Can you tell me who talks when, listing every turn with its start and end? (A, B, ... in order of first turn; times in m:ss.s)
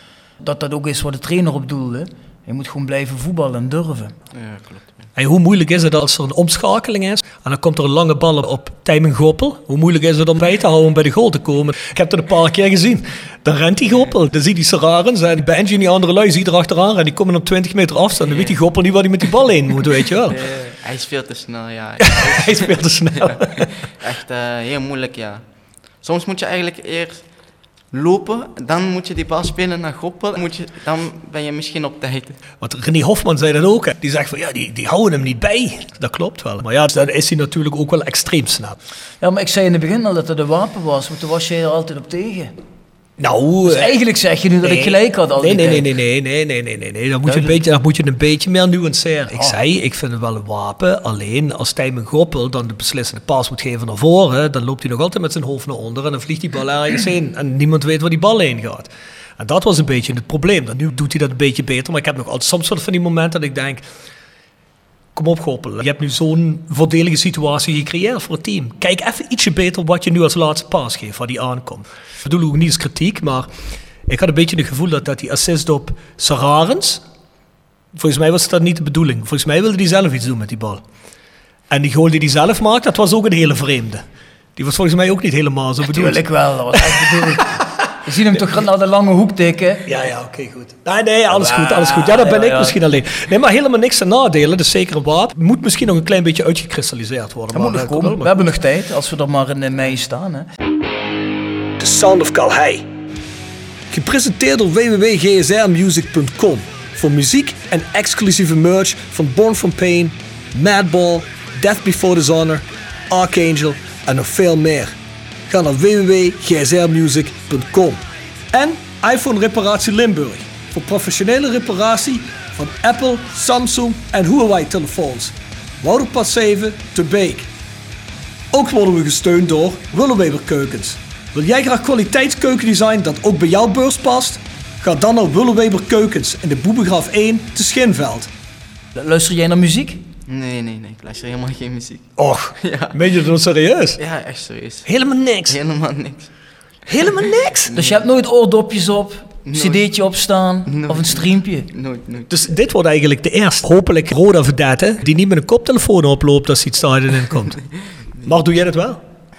0:00.4-0:04.1 A
0:04.3-0:05.1 B
0:05.2-0:20.4 C
0:18.2-0:18.6 B
0:20.3-0:32.4 B
0:22.0-0:23.8 C
0:32.6-0:38.8 C
0:39.2-0:42.5 A
0:43.2-0:44.0 C
0:43.6-0:45.9 A
0:44.6-1:03.8 C
0:47.2-0:47.6 A
0:49.3-0:49.6 A
1:05.1-1:13.5 C
1:14.1-1:17.0 C
1:17.9-1:20.8 C
1:21.7-1:24.0 C
1:24.6-1:28.3 C
1:25.8-1:29.9 A
1:29.8-1:38.3 C
1:31.3-1:32.8 A
1:37.5-1:40.5 A
1:41.8-1:42.8 C
1:43.9-1:54.9 C
1:55.5-1:58.0 C
1:58.5-2:07.5 C
2:08.5-2:18.3 C
2:18.9-2:20.0 A
2:20.3-2:23.0 B
2:22.2-2:24.0 C
2:24.0-2:26.4 B
2:24.8-2:25.6 C
2:26.9-2:27.7 C
2:27.7-2:28.0 B
2:27.7-2:31.7 A
2:29.4-2:29.8 B
2:30.7-2:32.3 B
2:32.3-2:39.0 C